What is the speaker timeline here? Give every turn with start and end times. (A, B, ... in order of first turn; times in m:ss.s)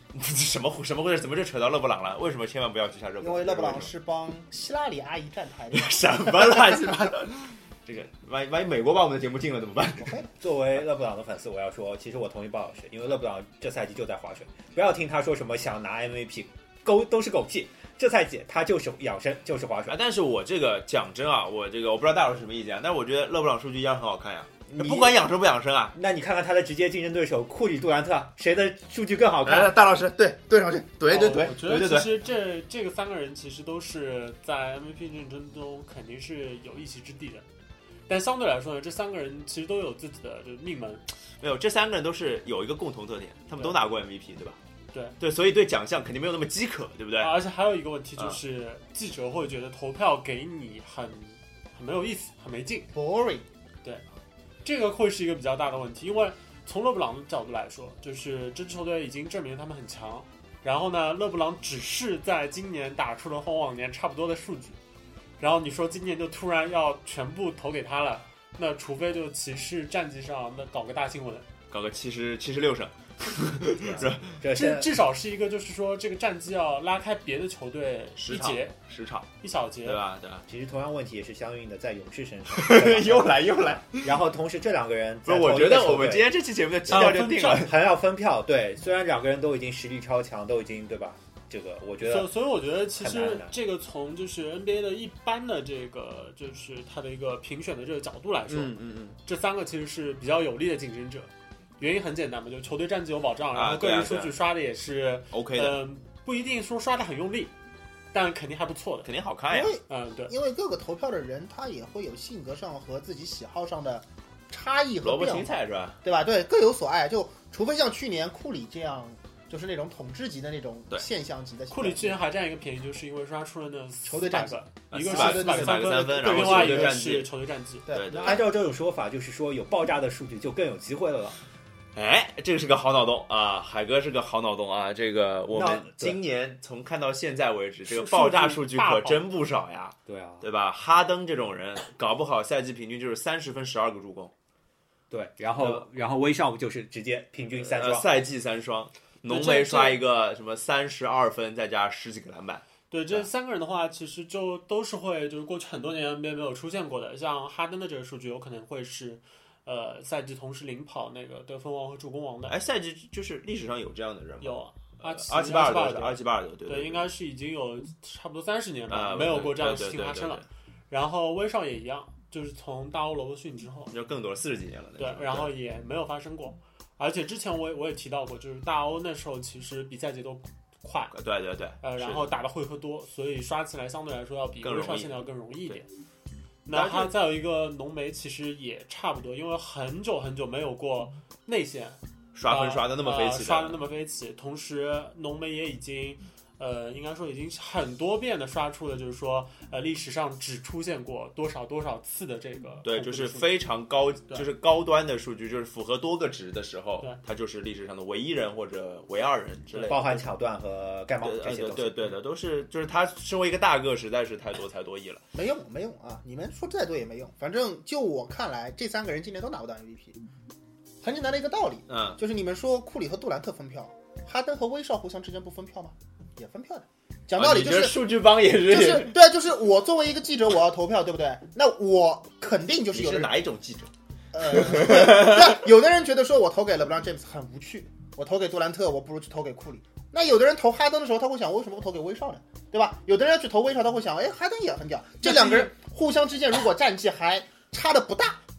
0:00.1-0:03.9 A
0:03.2-0:06.8 B
0:05.7-0:10.2 A
0:09.8-0:10.3 B
0:10.4-0:20.0 C
0:19.9-0:26.0 A
0:24.7-0:25.2 C
0:25.9-0:29.8 C
0:29.4-0:32.1 A
0:31.1-0:37.5 D
0:38.1-0:41.1 D
0:41.4-0:44.6 A
0:45.2-0:47.3 A
0:47.2-0:52.9 D
0:52.9-0:53.5 B
0:54.6-1:04.8 D
1:05.4-1:11.5 D
1:11.7-1:14.4 A
1:13.8-1:14.9 C
1:14.4-1:18.8 D
1:18.2-1:19.3 A
1:19.4-1:20.0 D
1:19.8-1:20.4 A
1:20.5-1:26.3 C
1:22.5-1:24.2 A
1:25.2-1:27.8 A
1:26.9-1:32.3 C
1:26.9-1:27.7 D
1:32.0-1:47.5 D
1:33.0-1:33.5 C
1:38.5-1:39.2 A
1:43.5-1:44.4 A
1:45.3-1:45.8 A
1:48.1-1:49.1 D
1:49.0-1:49.8 A
1:49.5-1:55.5 B
1:49.9-1:50.3 D
1:55.0-1:56.0 A
1:56.0-2:02.2 B
2:01.7-2:07.9 D
2:04.0-2:06.9 B
2:04.9-2:07.3 A
2:07.9-2:08.4 B
2:07.9-2:08.4 A
2:08.1-2:11.4 C
2:12.0-2:24.3 A
2:15.5-2:16.2 C
2:17.9-2:19.2 D
2:20.1-2:20.5 C
2:25.1-2:28.1 C
2:25.6-2:25.8 A
2:27.6-2:33.3 A
2:29.3-2:30.0 D
2:32.9-2:42.6 D
2:42.5-2:47.1 A
2:44.4-2:46.2 D
2:46.7-2:53.9 D
2:48.9-2:50.4 A
2:53.9-2:55.5 A
2:55.0-3:01.1 D
3:01.1-3:02.3 A
3:01.8-3:05.9 D
3:04.6-3:05.8 A
3:06.7-3:23.5 D
3:06.7-3:07.1 A
3:12.3-3:13.8 A
3:22.8-3:30.1 A
3:29.7-3:30.2 D
3:29.8-3:32.1 C
3:31.2-3:35.2 A
3:35.3-3:40.2 B
3:41.0-3:48.0 B
3:41.9-3:42.2 A
3:47.4-3:49.2 A
3:48.6-3:53.3 B
3:52.9-3:55.6 A
3:54.3-4:08.4 B
4:05.2-4:05.7 D